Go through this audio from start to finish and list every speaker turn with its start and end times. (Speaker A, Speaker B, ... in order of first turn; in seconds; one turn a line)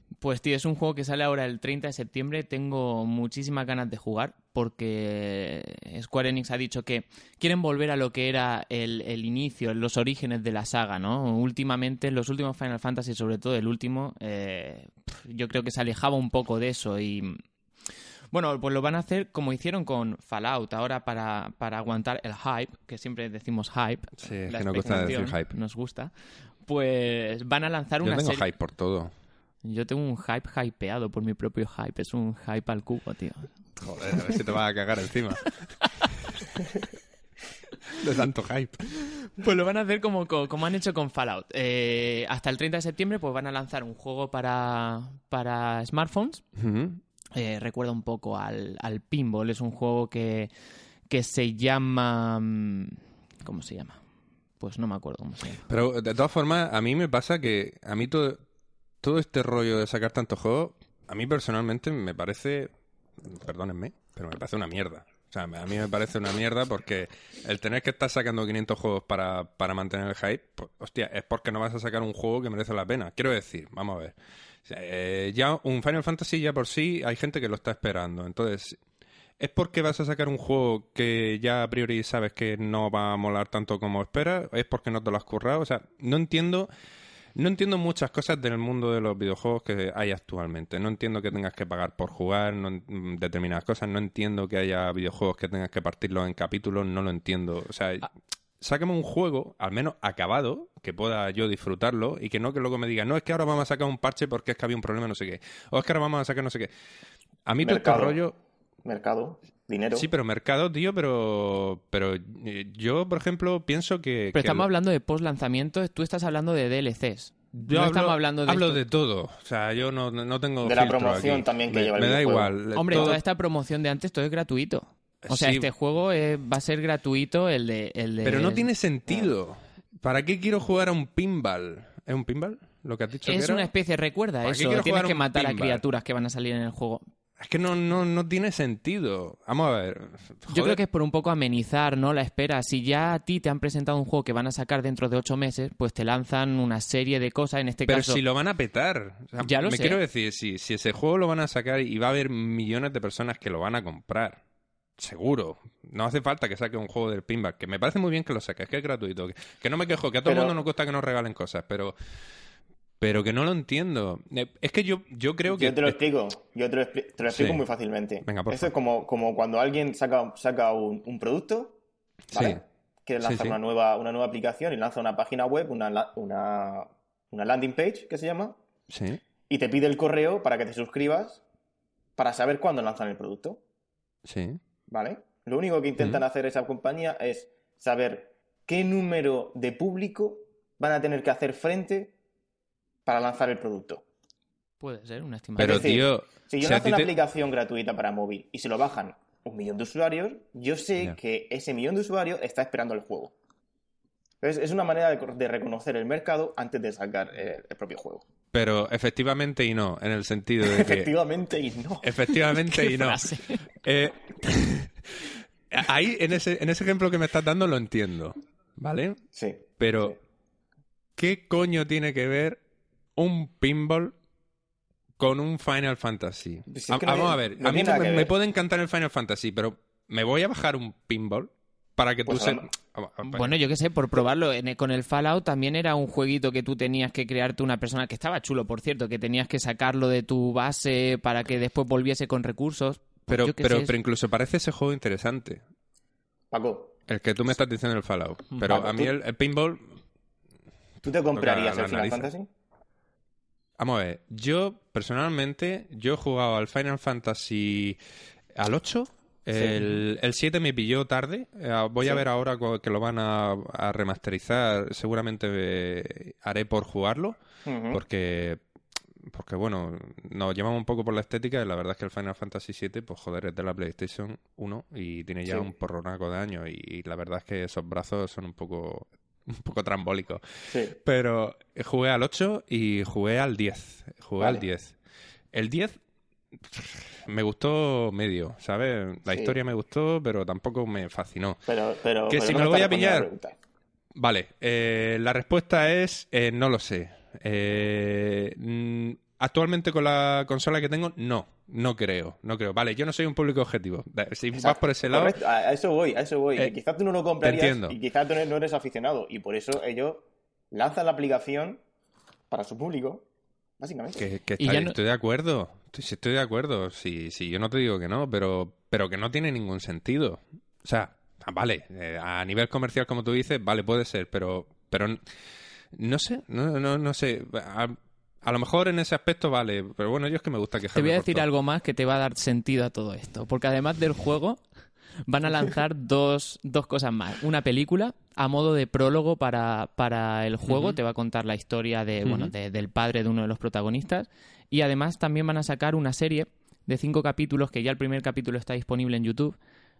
Speaker A: 0.2-17.4
Speaker A: 18.3-26.1
Speaker B: 24.2-25.5
Speaker A: 26.7-28.4
Speaker B: 28.0-29.1
Speaker A: 29.6-33.5
Speaker B: 33.8-35.6
Speaker A: 34.1-34.4
Speaker A: 35.4-36.1
Speaker B: 36.2-36.5
Speaker B: 37.9-38.8
Speaker A: 39.0-46.4
Speaker B: 46.6-47.0
Speaker A: 47.4-50.5
Speaker A: 51.1-54.0
Speaker A: 54.6-55.7
Speaker B: 55.7-58.4
Speaker B: 59.0-78.8
Speaker B: 79.4-86.7
Speaker B: 87.4-106.7
Speaker B: 107.5-108.4
Speaker C: 107.6-108.2
Speaker C: 108.8-110.1
Speaker B: 109.9-114.7
Speaker A: 114.3-118.8
Speaker B: 117.5-123.2
Speaker C: 120.6-123.0
Speaker A: 122.8-128.7
Speaker B: 125.2-125.7
Speaker B: 128.2-133.7
Speaker A: 133.2-137.0
Speaker B: 134.4-135.8
Speaker B: 137.4-140.8
Speaker A: 140.5-148.2
Speaker B: 147.9-154.4
Speaker A: 149.4-150.0
Speaker B: 155.0-161.9
Speaker C: 160.3-160.6
Speaker B: 163.0-166.0
Speaker C: 165.5-171.8
Speaker B: 167.3-167.6
Speaker B: 168.2-168.7
Speaker B: 172.3-172.6
Speaker C: 172.3-178.6
Speaker B: 173.2-173.6
Speaker B: 178.9-179.2
Speaker C: 179.5-181.4
Speaker C: 182.2-183.6
Speaker B: 184.2-184.6
Speaker C: 184.9-192.1
Speaker C: 193.1-194.0
Speaker A: 194.8-196.0
Speaker B: 195.6-197.2
Speaker C: 195.6-203.3
Speaker C: 204.4-208.2
Speaker B: 208.5-211.1
Speaker C: 210.6-212.2
Speaker B: 212.0-213.2
Speaker A: 212.5-213.7
Speaker B: 213.8-219.2
Speaker C: 219.3-220.1
Speaker B: 219.8-220.2
Speaker B: 221.2-222.6
Speaker B: 223.2-224.2
Speaker B: 225.2-233.6
Speaker C: 226.7-228.3
Speaker C: 232.3-232.7
Speaker A: 233.2-243.9
Speaker B: 243.3-245.6
Speaker C: 246.5-247.0
Speaker B: 247.1-250.0
Speaker C: 248.6-249.1
Speaker C: 251.0-252.5
Speaker B: 251.3-252.3
Speaker B: 253.8-258.0
Speaker B: 258.5-267.4
Speaker C: 259.5-259.9
Speaker C: 267.7-268.0
Speaker B: 267.9-268.6
Speaker B: 269.2-285.0
Speaker C: 280.7-281.0
Speaker C: 284.4-284.6
Speaker B: 285.5-286.0
Speaker B: 286.6-291.6
Speaker C: 289.3-289.6
Speaker C: 291.7-293.6
Speaker B: 292.3-293.3
Speaker B: 294.1-305.4
Speaker C: 304.6-311.8
Speaker B: 307.4-308.0
Speaker C: 312.5-313.2
Speaker C: 313.8-314.3
Speaker B: 314.2-325.2
Speaker A: 314.6-314.9
Speaker B: 325.9-331.5
Speaker A: 330.9-334.6
Speaker A: 335.3-349.6
Speaker B: 340.7-341.0
Speaker B: 342.2-342.5